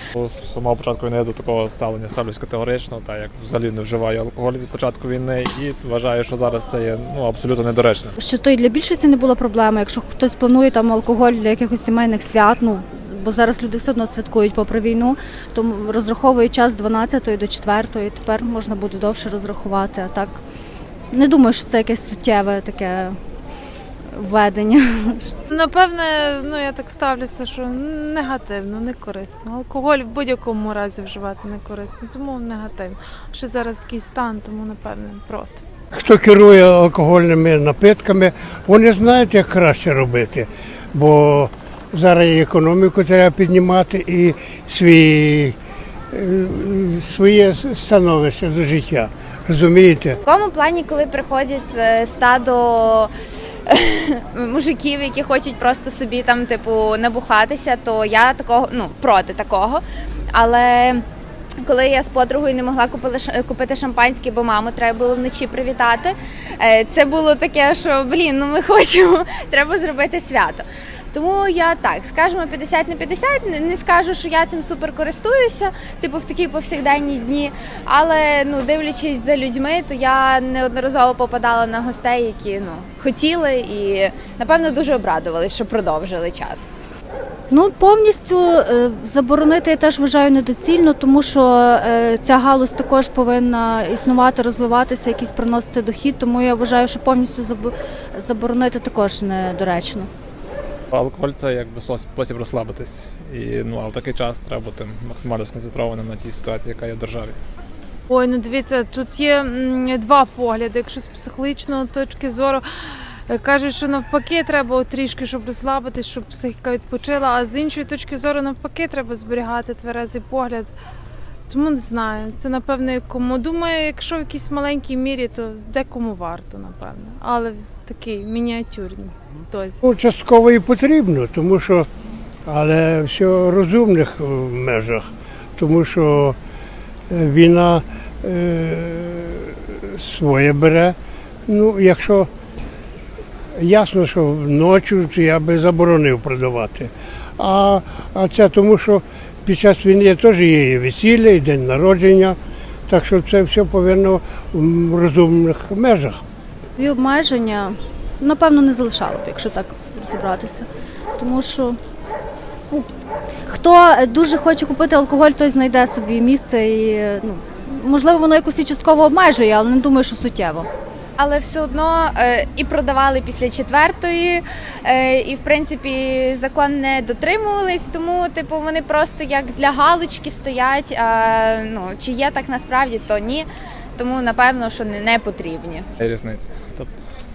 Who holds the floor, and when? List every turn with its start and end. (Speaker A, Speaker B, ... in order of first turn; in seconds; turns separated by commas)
Speaker A: 0.1-8.2, Speaker B: 8.2-20.4, Speaker B: 21.1-23.2, Speaker B: 24.1-25.3, Speaker C: 25.5-35.6, Speaker D: 35.9-45.6, Speaker D: 46.1-50.2, Speaker E: 50.2-53.1, Speaker E: 53.7-59.8, Speaker E: 60.3-61.0, Speaker E: 61.6-86.7, Speaker B: 87.5-100.1, Speaker A: 100.9-107.4, Speaker C: 108.1-120.7, Speaker C: 121.5-129.8, Speaker D: 129.8-131.9, Speaker D: 132.5-136.4, Speaker D: 137.1-141.0, Speaker D: 141.5-142.3, Speaker D: 143.5-152.4, Speaker D: 152.9-156.2, Speaker B: 156.8-161.8, Speaker B: 163.4-170.7, Speaker E: 171.2-185.9, Speaker A: 186.0-186.9